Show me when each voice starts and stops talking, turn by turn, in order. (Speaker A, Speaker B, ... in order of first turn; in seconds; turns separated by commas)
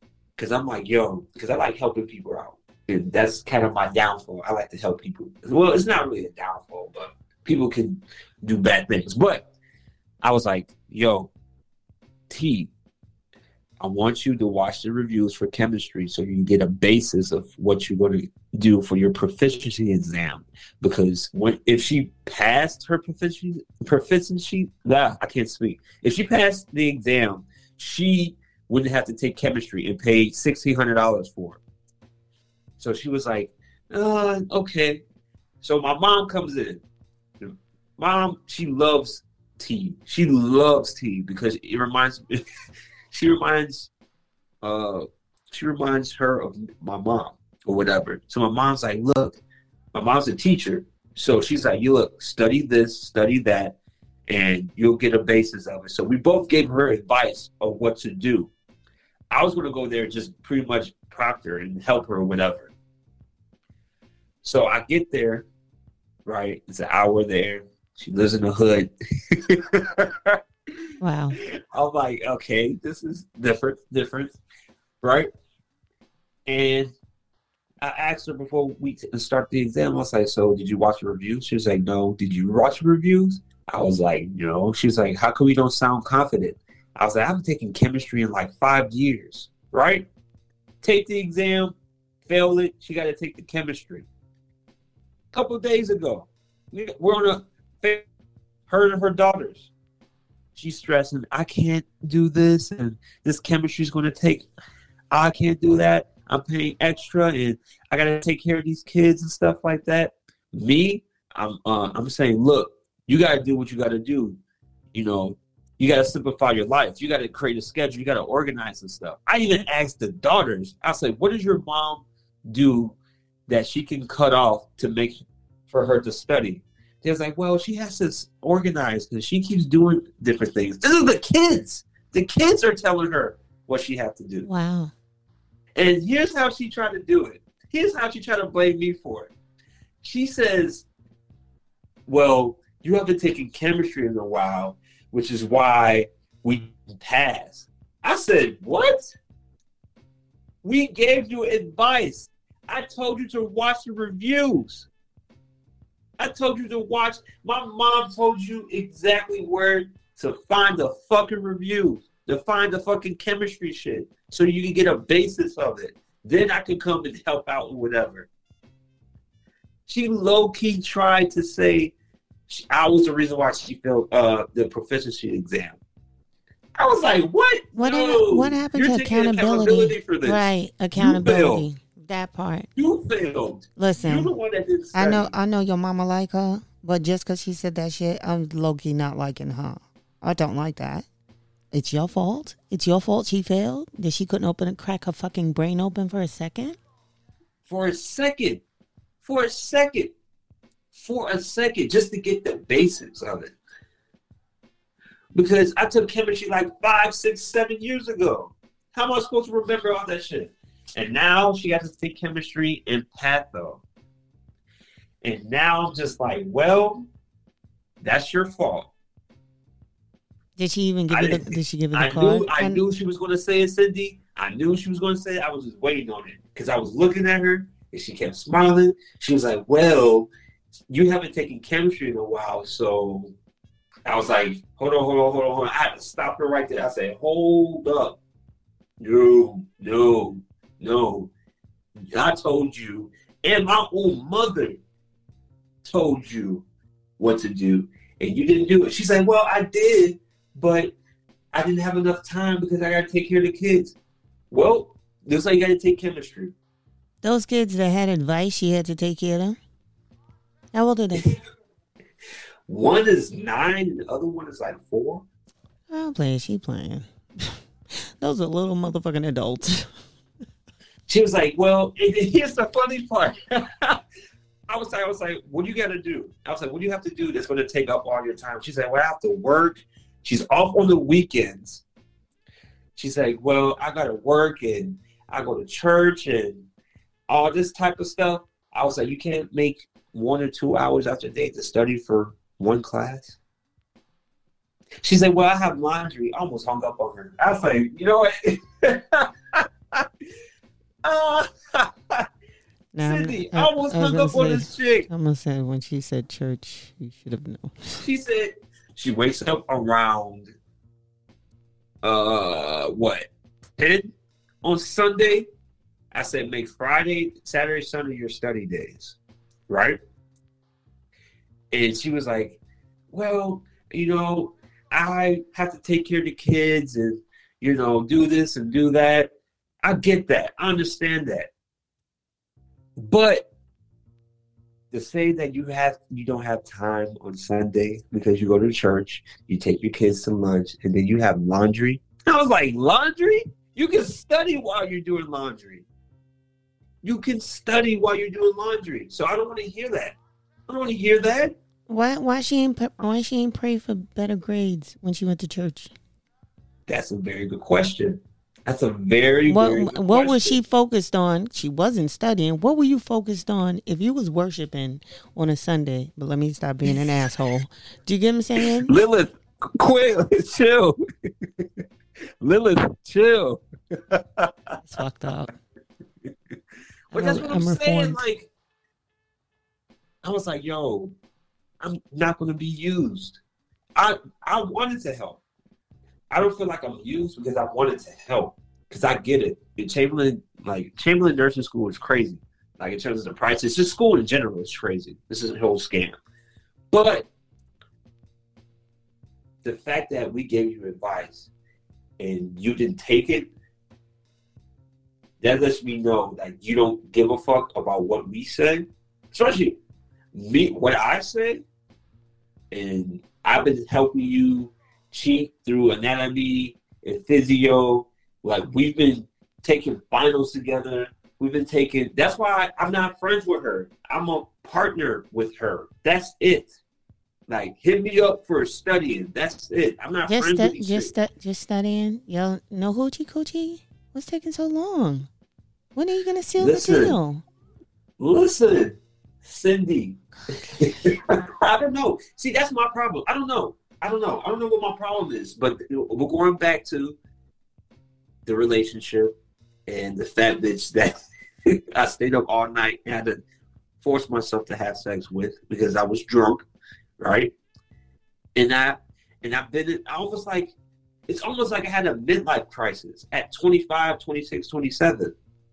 Speaker A: 0.4-9.5, Speaker A: 10.2-11.3, Speaker A: 12.3-12.7, Speaker A: 13.8-31.6, Speaker A: 32.8-35.0, Speaker A: 35.6-36.8, Speaker A: 37.4-42.4, Speaker A: 43.1-43.9, Speaker A: 44.6-49.4, Speaker A: 49.9-58.5, Speaker A: 59.3-62.7, Speaker A: 64.4-65.5, Speaker A: 66.2-70.4, Speaker B: 71.0-71.4, Speaker A: 71.4-74.4, Speaker A: 75.0-75.3, Speaker A: 76.5-76.9, Speaker A: 77.8-90.1, Speaker A: 90.8-94.1, Speaker A: 95.3-98.0, Speaker A: 98.7-99.7, Speaker A: 100.5-104.5, Speaker A: 105.1-114.4, Speaker A: 114.9-134.5, Speaker B: 134.4-134.9, Speaker A: 135.8-139.3, Speaker A: 140.0-140.8, Speaker A: 142.1-149.1, Speaker A: 150.6-154.9, Speaker A: 156.2-168.3, Speaker A: 169.9-171.9, Speaker A: 172.5-175.8, Speaker A: 176.8-181.7, Speaker B: 177.8-182.7, Speaker A: 182.8-185.3, Speaker B: 183.8-184.3, Speaker B: 184.9-191.1, Speaker B: 191.7-196.8, Speaker A: 197.6-198.6, Speaker A: 199.2-200.1, Speaker A: 200.9-203.5, Speaker A: 205.3-213.8, Speaker A: 215.2-217.1, Speaker A: 218.0-218.9, Speaker B: 220.6-222.8, Speaker A: 221.1-230.3, Speaker A: 230.9-233.3, Speaker A: 234.1-238.2, Speaker A: 239.0-241.3, Speaker A: 242.0-244.8, Speaker A: 245.8-246.6, Speaker A: 247.2-250.9, Speaker A: 251.5-253.9, Speaker A: 254.5-256.5, Speaker B: 257.2-259.6, Speaker B: 260.7-261.4, Speaker A: 262.7-265.2, Speaker B: 265.9-269.9, Speaker A: 271.1-274.0, Speaker A: 274.7-281.8, Speaker A: 283.0-286.7, Speaker A: 287.3-293.4, Speaker A: 295.0-300.1, Speaker A: 301.0-302.3, Speaker B: 302.9-308.0, Speaker A: 303.0-305.1, Speaker A: 308.0-310.5, Speaker A: 312.0-315.5, Speaker A: 316.1-319.2, Speaker A: 319.7-320.0, Speaker A: 321.7-322.6, Speaker A: 323.1-329.3, Speaker A: 329.8-331.5, Speaker A: 333.0-333.5, Speaker A: 334.9-345.9, Speaker A: 347.0-350.2, Speaker A: 350.7-351.6, Speaker B: 351.9-355.9, Speaker A: 356.9-360.6, Speaker B: 359.5-368.9, Speaker A: 368.6-371.7, Speaker A: 372.4-374.8, Speaker B: 374.8-375.5, Speaker A: 377.1-378.5, Speaker B: 377.1-378.2, Speaker A: 380.2-381.1, Speaker A: 381.8-383.4, Speaker A: 383.9-385.4, Speaker A: 386.3-396.2, Speaker A: 396.9-397.3, Speaker A: 399.6-401.5, Speaker A: 402.2-403.5, Speaker A: 405.4-409.8, Speaker A: 410.3-411.6, Speaker A: 412.7-426.7, Speaker A: 427.5-431.1, Speaker B: 430.3-435.3, Speaker B: 435.9-437.4, Speaker A: 436.6-437.2, Speaker A: 438.2-447.2, Speaker A: 448.4-449.3, Speaker A: 449.9-453.4, Speaker A: 454.0-456.7, Speaker A: 457.2-457.5, Speaker A: 458.5-460.7, Speaker A: 461.3-465.3